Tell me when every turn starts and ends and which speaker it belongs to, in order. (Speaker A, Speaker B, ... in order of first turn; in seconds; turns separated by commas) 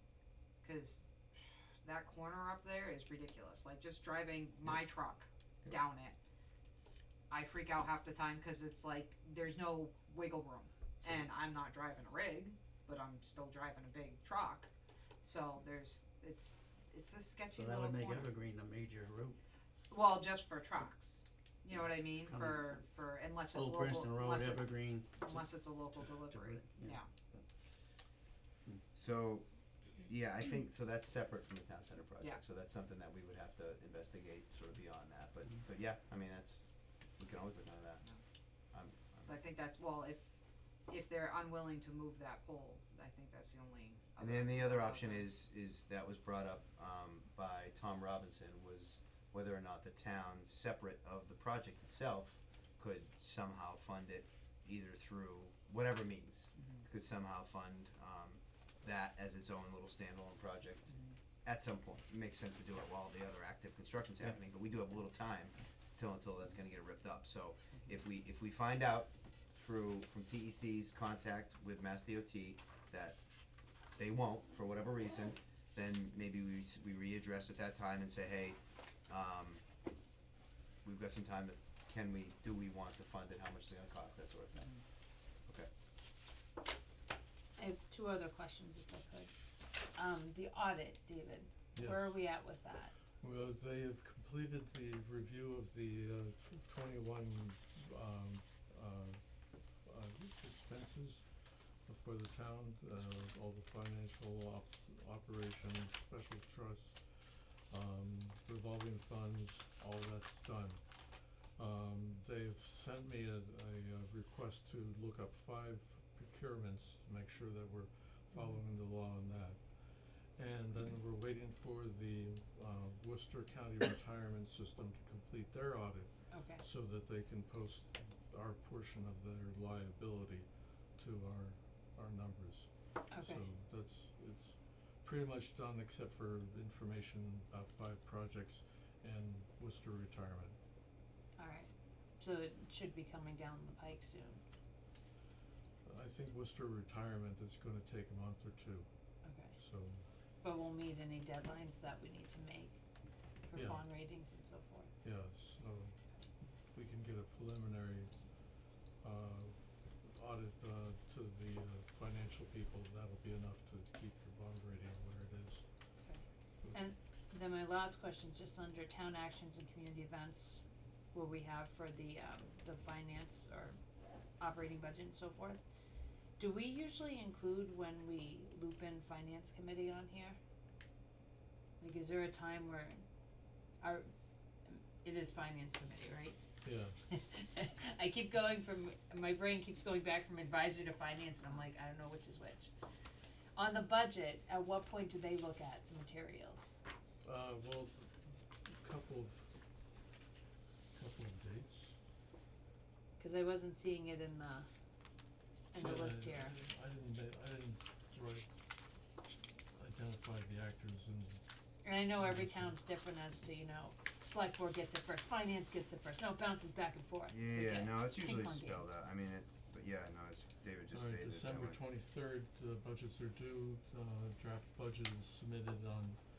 Speaker A: 0.6-1.1, Speaker A: 1.8-6.2, Speaker A: 7.3-14.7, Speaker A: 15.2-18.3, Speaker B: 17.6-19.4, Speaker A: 19.9-27.1, Speaker B: 22.3-22.8, Speaker B: 23.6-25.1, Speaker B: 26.4-27.0, Speaker C: 28.9-38.0, Speaker C: 38.7-39.3, Speaker A: 39.3-45.3, Speaker C: 44.2-60.9, Speaker A: 56.6-56.9, Speaker A: 60.9-61.2, Speaker C: 61.5-73.2, Speaker C: 74.0-79.6, Speaker C: 80.8-84.7, Speaker D: 87.6-89.3, Speaker D: 89.9-92.9, Speaker E: 91.8-92.4, Speaker E: 93.2-101.3, Speaker E: 101.9-110.8, Speaker E: 111.6-119.6, Speaker E: 120.2-140.6, Speaker D: 126.3-126.6, Speaker D: 133.1-133.4, Speaker D: 141.4-144.4, Speaker E: 145.8-148.9, Speaker D: 149.2-149.6, Speaker E: 149.6-150.1, Speaker D: 150.4-152.8, Speaker D: 153.5-154.9, Speaker E: 153.6-153.9, Speaker E: 155.0-156.0, Speaker E: 156.7-158.1, Speaker E: 159.0-165.7, Speaker D: 166.1-173.8, Speaker D: 174.4-175.6, Speaker D: 176.4-180.4, Speaker D: 181.8-183.0, Speaker D: 183.8-184.1, Speaker D: 184.7-186.4, Speaker E: 186.6-186.9, Speaker D: 187.1-192.7, Speaker D: 193.6-196.7, Speaker E: 197.2-198.2, Speaker E: 198.7-199.5, Speaker E: 200.9-202.0, Speaker D: 203.2-204.7, Speaker D: 205.7-206.6, Speaker E: 205.8-208.5, Speaker E: 209.7-211.4, Speaker D: 211.8-218.7, Speaker E: 212.2-212.8, Speaker C: 217.3-221.8, Speaker E: 220.9-226.2